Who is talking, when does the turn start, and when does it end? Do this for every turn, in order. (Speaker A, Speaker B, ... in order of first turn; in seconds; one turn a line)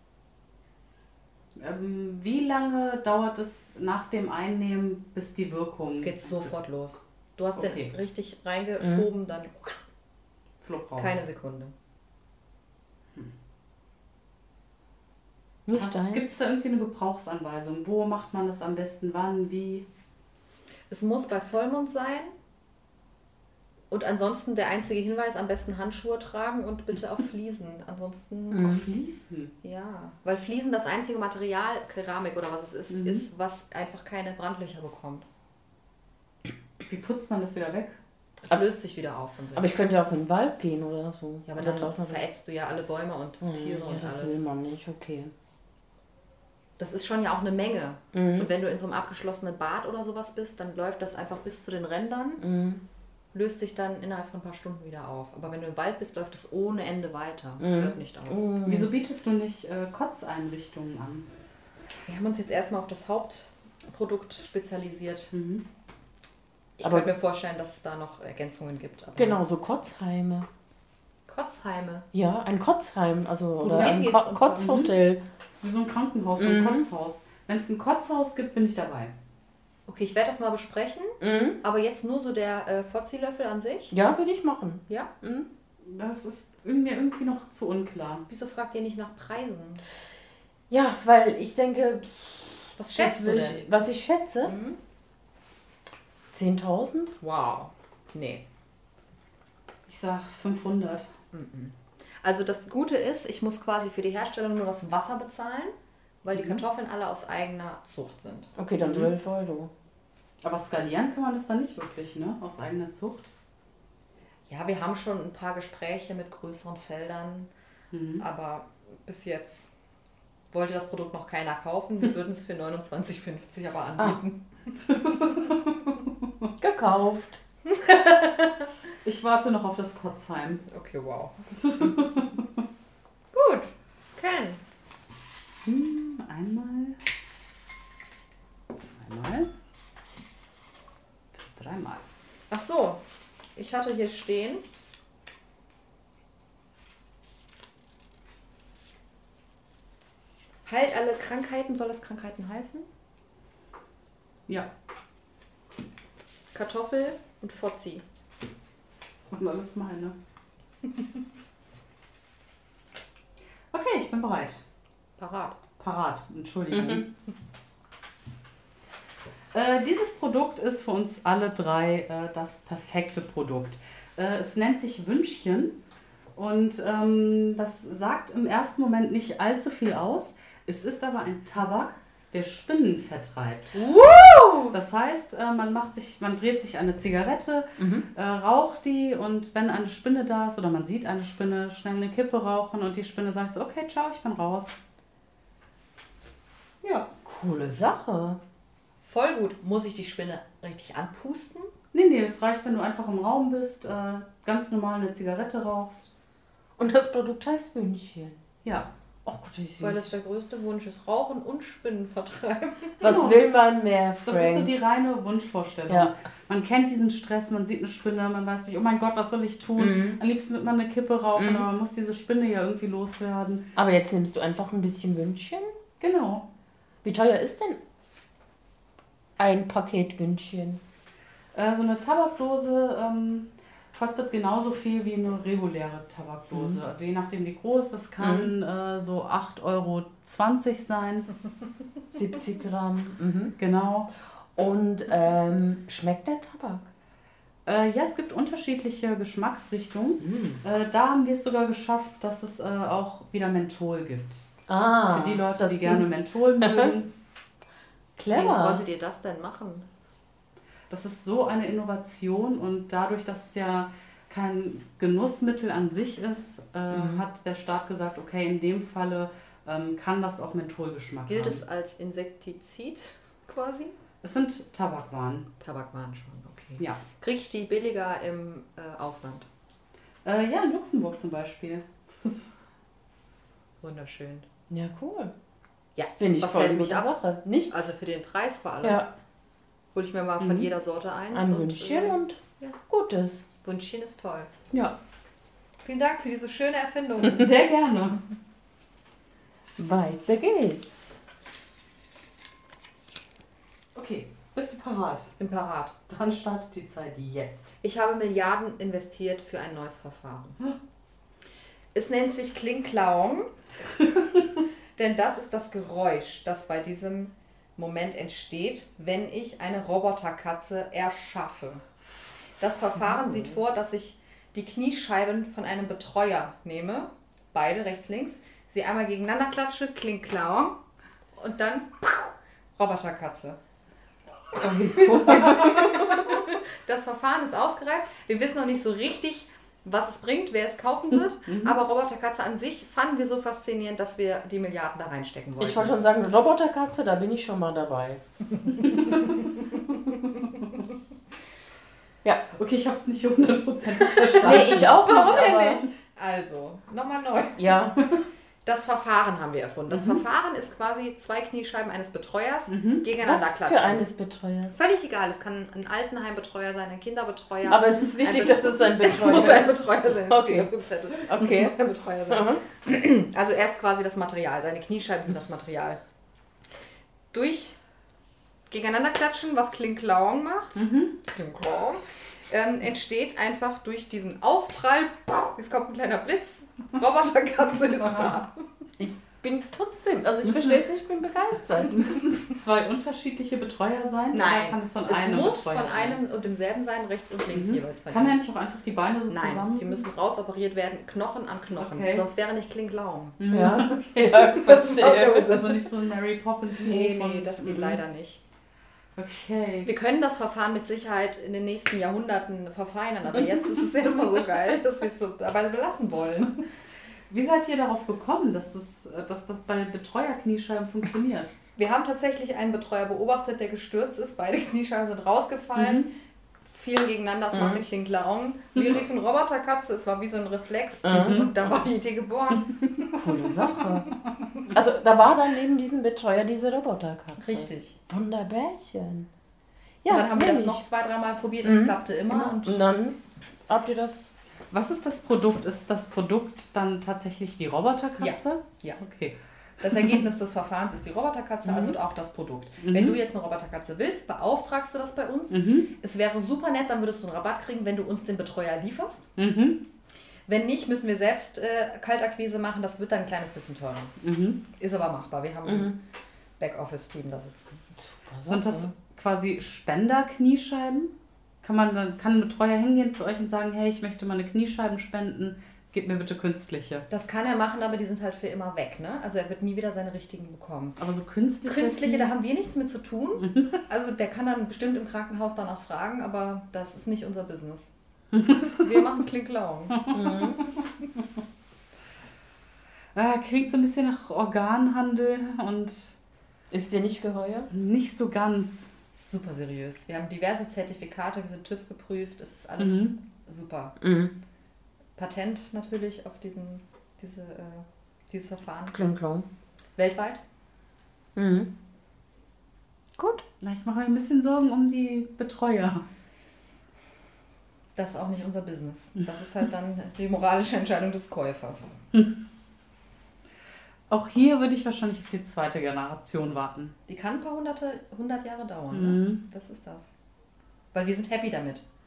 Speaker A: 1.6-6.5
Speaker B: 5.9-9.8
Speaker A: 7.5-7.9
Speaker C: 8.8-9.1
Speaker A: 10.6-11.2
Speaker B: 11.0-11.7
Speaker C: 15.7-16.3
Speaker A: 15.7-19.9
Speaker B: 20.9-22.3
Speaker B: 23.9-28.9
Speaker C: 28.5-28.8
Speaker A: 28.5-29.5
Speaker B: 29.6-35.3
Speaker A: 32.9-33.3
Speaker A: 36.8-38.0
Speaker B: 38.4-39.7
Speaker C: 39.5-42.2
Speaker B: 41.5-44.4
Speaker C: 43.4-45.3
Speaker B: 46.8-52.4
Speaker C: 48.1-48.5
Speaker C: 52.4-52.8
Speaker B: 53.3-58.4
Speaker C: 57.6-58.9
Speaker A: 58.6-61.3
Speaker B: 62.0-65.3
Speaker A: 65.3-65.6
Speaker B: 66.8-69.4
Speaker C: 66.8-67.1
Speaker C: 69.1-70.5
Speaker B: 71.3-72.1
Speaker C: 72.1-75.2
Speaker B: 73.6-74.8
Speaker A: 74.5-74.9
Speaker A: 75.6-79.1
Speaker C: 76.4-76.8
Speaker B: 79.9-83.9
Speaker C: 81.2-81.6
Speaker C: 83.9-85.5
Speaker A: 85.8-88.2
Speaker B: 88.3-89.8
Speaker C: 90.7-94.5
Speaker B: 92.8-93.6
Speaker B: 94.4-94.8
Speaker C: 96.3-97.1
Speaker B: 97.2-98.4
Speaker A: 99.9-101.1
Speaker B: 101.3-108.5
Speaker A: 106.3-106.6
Speaker C: 108.5-109.7
Speaker A: 108.8-109.1
Speaker A: 110.4-113.3
Speaker B: 114.5-117.5
Speaker A: 117.9-118.2
Speaker B: 118.2-119.7
Speaker B: 120.5-124.7
Speaker A: 124.8-126.5
Speaker C: 126.6-127.4
Speaker B: 127.7-128.7
Speaker A: 129.0-130.6
Speaker B: 130.7-131.8
Speaker A: 131.5-132.6
Speaker B: 133.3-134.6
Speaker A: 135.6-137.0
Speaker A: 138.7-139.5
Speaker A: 141.4-142.0
Speaker B: 142.5-143.0
Speaker B: 143.6-144.6
Speaker B: 150.7-152.9
Speaker B: 156.5-158.0
Speaker A: 159.2-160.2
Speaker A: 163.7-164.6
Speaker B: 165.2-165.6
Speaker A: 165.8-167.1
Speaker C: 166.7-167.0
Speaker A: 169.5-175.8
Speaker A: 176.3-183.8
Speaker C: 183.8-184.8
Speaker A: 184.7-194.8
Speaker C: 187.8-188.1
Speaker A: 196.8-197.1
Speaker C: 197.2-198.4
Speaker B: 199.0-201.7
Speaker A: 201.9-206.1
Speaker C: 206.8-208.4
Speaker A: 208.6-208.9
Speaker C: 209.2-210.1
Speaker B: 209.8-213.2
Speaker C: 213.0-214.7
Speaker A: 213.0-213.7
Speaker A: 214.2-223.6
Speaker C: 215.9-216.1
Speaker C: 219.8-220.2
Speaker C: 221.4-221.7
Speaker C: 223.8-225.7
Speaker A: 226.0-226.5
Speaker C: 227.0-227.8
Speaker C: 229.4-230.8
Speaker A: 231.5-241.3
Speaker C: 236.5-236.8
Speaker C: 238.2-238.5
Speaker C: 242.1-243.6
Speaker A: 243.6-244.1
Speaker C: 244.6-246.9
Speaker A: 247.6-254.4
Speaker C: 250.2-250.6
Speaker C: 254.7-256.1
Speaker A: 255.1-257.1
Speaker C: 256.6-256.9
Speaker C: 258.2-258.8
Speaker B: 258.3-259.9
Speaker A: 260.9-271.6
Speaker C: 266.9-267.2
Speaker B: 271.3-273.9
Speaker A: 274.2-275.5
Speaker B: 275.6-279.5
Speaker A: 280.2-282.5
Speaker B: 283.8-284.5
Speaker C: 284.7-285.3
Speaker B: 285.9-287.1
Speaker C: 286.2-287.9
Speaker B: 287.7-289.0
Speaker C: 288.8-289.1
Speaker B: 289.9-292.8
Speaker C: 291.3-293.4
Speaker B: 293.6-294.5
Speaker B: 295.8-297.6
Speaker A: 297.2-298.2
Speaker C: 299.8-301.2
Speaker A: 303.9-305.3
Speaker B: 305.4-305.9
Speaker A: 306.1-307.7
Speaker B: 307.8-310.6
Speaker B: 311.9-313.5
Speaker A: 314.0-314.6
Speaker B: 314.9-321.8
Speaker B: 322.6-330.8
Speaker B: 331.4-333.6
Speaker C: 334.5-336.4
Speaker B: 334.9-345.9
Speaker A: 341.4-341.8
Speaker C: 345.6-348.2
Speaker A: 348.7-349.6
Speaker A: 352.5-355.0
Speaker B: 354.3-357.8
Speaker C: 354.4-355.9
Speaker C: 357.6-358.0
Speaker B: 358.6-364.1
Speaker A: 359.9-360.2
Speaker A: 362.7-363.0
Speaker C: 363.2-364.8
Speaker B: 364.7-376.0
Speaker C: 367.6-371.7
Speaker C: 372.3-372.6
Speaker B: 377.3-377.8
Speaker B: 378.7-388.6
Speaker A: 380.8-381.2
Speaker A: 388.0-388.4
Speaker C: 389.4-391.9
Speaker A: 390.4-390.9
Speaker A: 391.7-396.2
Speaker B: 394.3-398.4
Speaker A: 397.5-400.0
Speaker B: 399.3-403.4
Speaker A: 401.7-402.2
Speaker A: 403.4-408.0
Speaker C: 403.5-405.6
Speaker B: 404.3-405.8
Speaker B: 406.7-408.4
Speaker A: 409.1-409.9
Speaker B: 409.9-416.6
Speaker A: 417.3-421.5
Speaker B: 421.8-426.1
Speaker A: 425.8-426.1
Speaker B: 426.6-433.2
Speaker C: 427.5-427.8
Speaker C: 431.0-431.4
Speaker A: 431.1-431.5
Speaker C: 433.1-434.1
Speaker C: 434.7-439.3
Speaker B: 437.4-438.0
Speaker C: 440.0-440.9
Speaker B: 440.1-442.8
Speaker C: 441.6-444.3
Speaker A: 444.7-449.3
Speaker B: 448.2-449.0
Speaker B: 449.8-459.3
Speaker C: 451.6-451.9
Speaker A: 452.8-453.2
Speaker A: 455.5-455.9
Speaker A: 459.4-459.8
Speaker B: 460.5-464.1
Speaker A: 464.2-464.6
Speaker B: 464.8-466.0
Speaker C: 465.6-465.9
Speaker B: 466.6-467.8
Speaker C: 468.0-468.9
Speaker A: 468.4-477.1
Speaker B: 477.1-481.0
Speaker A: 481.0-482.3
Speaker B: 481.6-487.9
Speaker A: 483.4-483.8
Speaker A: 488.3-489.0
Speaker B: 488.6-490.1
Speaker A: 490.0-490.8
Speaker C: 490.1-490.6
Speaker A: 493.1-496.1
Speaker C: 496.7-497.7
Speaker A: 497.7-498.9
Speaker B: 499.1-504.0
Speaker A: 502.8-503.1
Speaker C: 504.0-504.3
Speaker B: 505.2-509.0
Speaker C: 508.9-509.5
Speaker B: 510.0-510.4
Speaker C: 511.4-511.7
Speaker C: 513.2-513.4
Speaker A: 513.6-516.0
Speaker B: 518.0-521.9
Speaker A: 524.1-526.9
Speaker B: 527.1-530.1
Speaker A: 528.9-529.4
Speaker B: 530.9-531.8